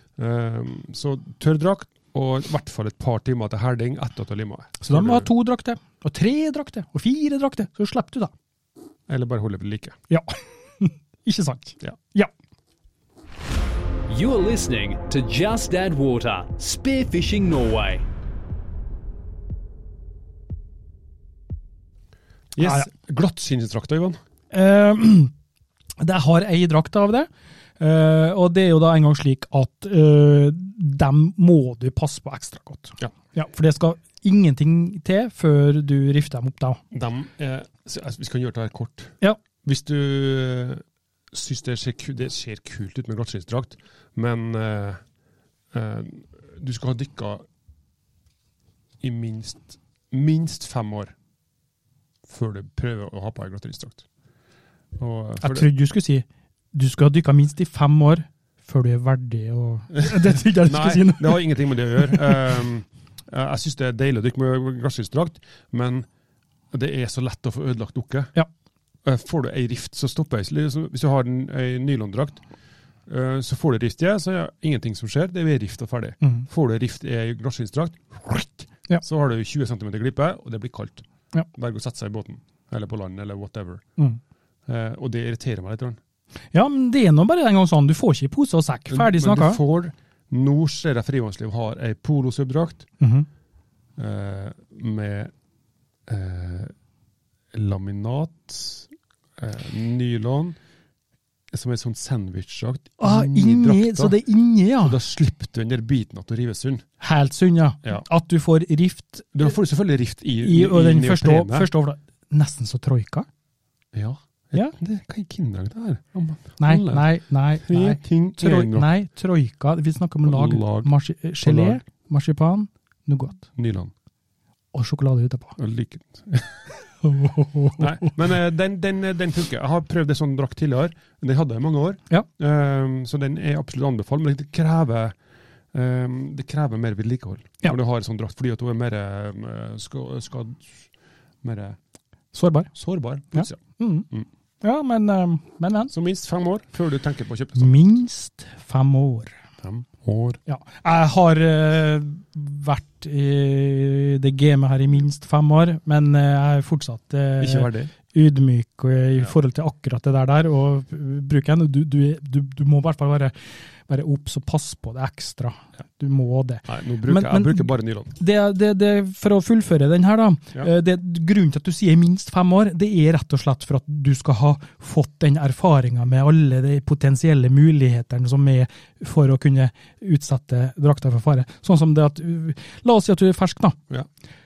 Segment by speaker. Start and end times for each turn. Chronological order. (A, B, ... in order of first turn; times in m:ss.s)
0:00.2-0:05.3 A
0:04.8-0:08.3 B
0:09.1-0:10.0 A
0:10.1-0:12.3 B
0:14.1-0:18.0 C
0:22.6-0:24.2 A
0:22.6-0:22.9 B
0:24.5-0:25.3 B
0:26.0-0:36.8 B
0:36.9-0:45.0 A
0:45.7-0:47.4 A
0:49.0-0:51.1 A
0:52.3-0:54.0 A
0:55.0-0:55.7 A
0:55.4-1:01.5 B
1:00.0-1:06.1 A
1:06.7-1:08.3 A
1:09.0-1:12.4 A
1:13.1-1:23.8 A
1:16.2-1:16.5 B
1:24.7-1:26.0 A
1:26.5-1:29.6 B
1:28.9-1:32.9 A
1:33.0-1:33.3 B
1:34.0-1:35.3 A
1:36.1-1:36.7 A
1:37.5-1:40.6 A
1:41.5-1:44.2 A
1:43.0-1:45.0 B
1:44.8-1:46.8 A
1:47.0-1:49.5 B
1:49.3-1:51.7 A
1:50.4-1:53.3 B
1:53.9-1:57.1 A
1:56.6-2:03.5 B
1:57.7-1:58.9 A
2:00.2-2:00.9 A
2:01.4-2:01.8 A
2:03.6-2:03.9 A
2:04.7-2:05.6 B
2:05.6-2:06.7 A
2:07.0-2:08.2 B
2:07.8-2:15.2 A
2:15.7-2:20.9 A
2:21.4-2:21.8 A
2:22.3-2:22.7 B
2:22.7-2:24.3 A
2:23.3-2:24.1 B
2:24.6-2:25.9 B
2:25.9-2:27.8 A
2:27.6-2:29.4 B
2:29.6-2:30.4 A
2:30.5-2:43.3 B
2:37.4-2:37.9 A
2:43.9-3:03.8 B
2:46.7-2:48.2 A